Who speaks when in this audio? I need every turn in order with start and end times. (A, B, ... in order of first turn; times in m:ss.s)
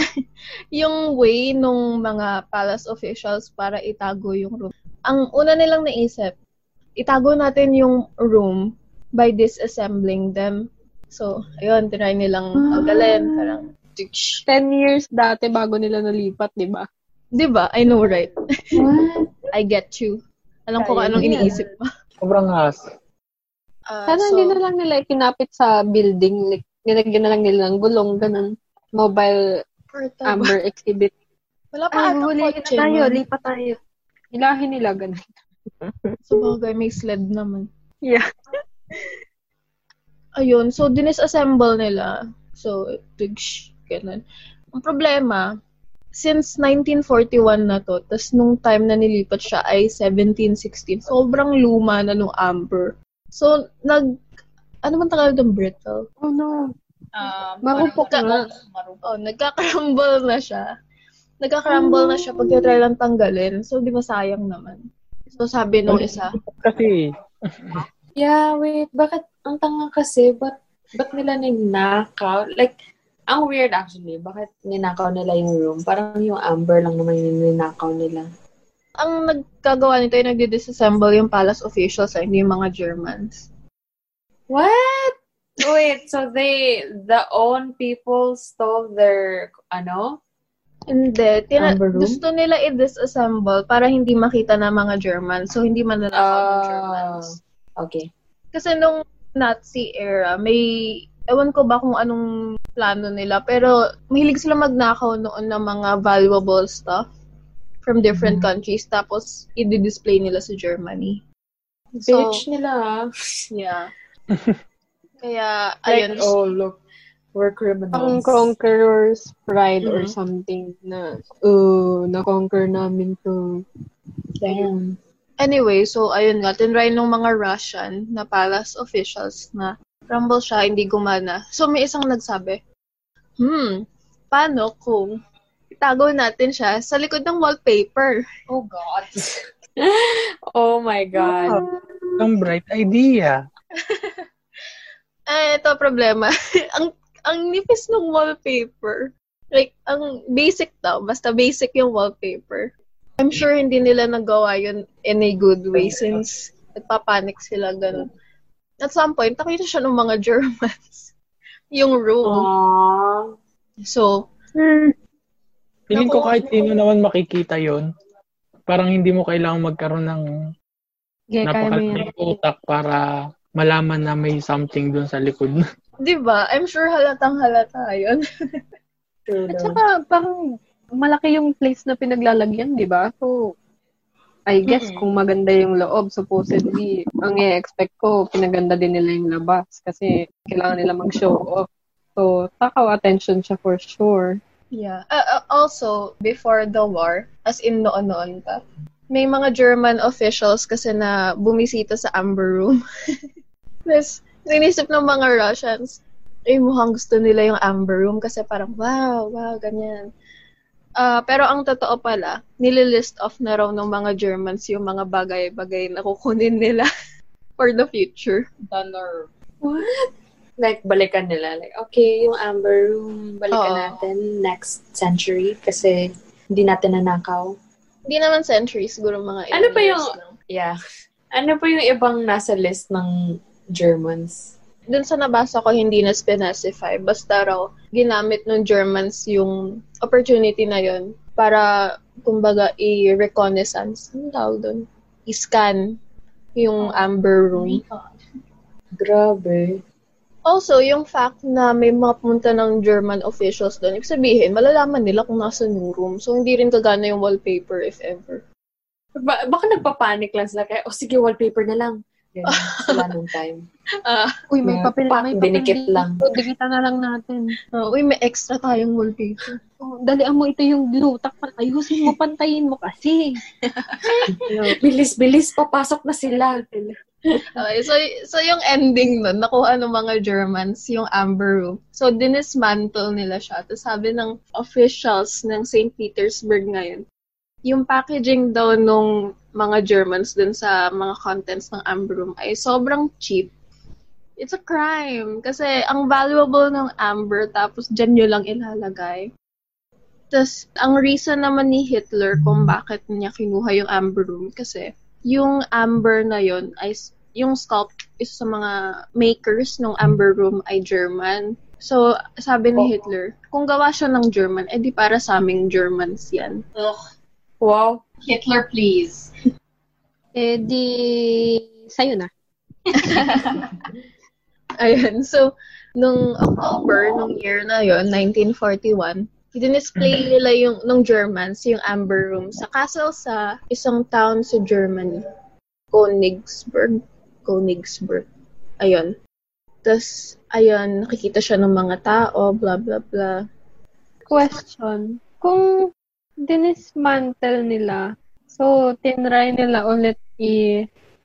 0:00.7-0:06.3 A
0:07.0-0:08.6 A
0:09.2-0:10.6 A
0:11.1-0:14.4 A
0:12.7-0:13.2 B
0:14.5-0:16.8 C
0:17.4-0:18.3 A
0:18.8-0:19.2 B
0:19.5-0:21.8 A
0:20.8-0:21.5 C
0:21.2-0:21.5 B
0:22.2-0:22.8 D
0:23.9-0:24.6 A
0:24.1-0:29.4 C
0:29.9-0:30.5 A
0:30.2-0:31.1 C
0:31.7-0:33.2 A
0:31.9-0:33.8 C
0:34.3-0:35.3 C
0:35.8-0:36.5 C
0:36.3-0:37.7 A
0:40.4-0:44.2 A
0:44.7-0:45.4 A
0:46.2-0:54.0 A
0:54.8-0:56.0 A
0:56.2-0:56.7 C
0:57.1-0:59.0 E
0:57.6-0:58.4 C
0:58.0-0:58.3 A
0:59.0-1:00.6 A
1:01.4-1:04.8 A
1:05.4-1:06.3 A
1:05.9-1:07.0 D
1:08.2-1:12.7 B
1:13.3-1:18.2 B
1:19.0-1:23.4 A
1:24.5-1:30.1 B
1:30.9-1:37.3 A
1:31.6-1:32.2 B
1:36.1-1:38.0 B
1:38.5-1:40.6 A
1:41.3-1:42.2 A
1:42.8-1:47.0 A
1:47.8-1:51.2 A
1:52.0-1:53.4 B
1:52.1-1:52.4 A
1:53.5-1:53.9 A
1:55.2-1:56.3 A
1:55.9-1:56.8 B
1:57.3-1:58.5 B
1:57.9-2:03.6 C
1:59.8-2:00.1 A
2:04.4-2:05.0 B
2:05.4-2:12.6 A
2:13.4-2:13.8 A
2:14.3-2:15.1 A
2:15.8-2:18.2 A
2:18.5-2:21.6 B
2:22.2-2:23.4 D
2:23.8-2:24.1 A
2:25.3-2:38.1 A
2:35.7-2:36.1 B
2:38.8-2:41.1 A
2:41.7-2:42.5 A
2:42.2-2:43.2 B
2:43.8-2:44.1 A
2:44.6-2:44.9 C
2:45.9-2:47.8 D
2:45.9-2:46.4 A
2:48.7-2:50.2 D
2:51.3-2:52.4 C
2:51.4-2:53.0 D
2:53.6-2:55.6 D
2:56.0-2:58.2 A
2:59.3-2:59.8 B
2:59.5-3:00.3 C
3:01.0-3:03.3 C
3:04.5-3:11.6 C
3:04.6-3:05.1 B
3:12.2-3:14.4 C
3:14.7-3:18.6 A
3:19.1-3:22.8 A
3:23.9-3:30.1 A
3:31.0-3:36.9 A
3:37.6-3:38.5 A
3:38.6-3:39.3 E
3:39.6-3:40.1 B
3:40.6-3:47.5 B
3:43.5-3:44.0 A
3:48.1-3:50.3 A
3:49.5-3:50.8 B
3:51.3-3:53.1 B
3:53.7-3:54.5 B
3:54.9-4:01.7 A
4:02.2-4:05.8 A
4:06.6-4:07.8 A
4:09.0-4:09.8 B
4:10.4-4:18.4 A
4:19.2-4:23.6 B
4:22.5-4:23.1 A
4:24.0-4:24.3 A
4:24.5-4:27.5 C
4:24.6-4:26.2 B
4:27.7-4:29.6 A
4:29.8-4:33.4 C
4:33.7-4:34.0 A
4:34.1-4:36.6 B
4:34.5-4:34.8 C
4:36.6-4:36.9 C
4:37.6-4:47.0 A
4:47.7-4:53.5 A
4:54.4-4:59.3 A
5:00.3-5:16.6 A
5:17.6-5:18.0 B
5:18.2-5:19.3 E
5:20.4-5:22.3 C
5:23.0-5:23.4 A
5:24.8-5:35.2 A
5:35.9-5:38.2 A
5:38.8-5:39.1 A
5:39.8-5:43.3 A
5:44.3-5:45.8 C
5:46.4-5:50.8 C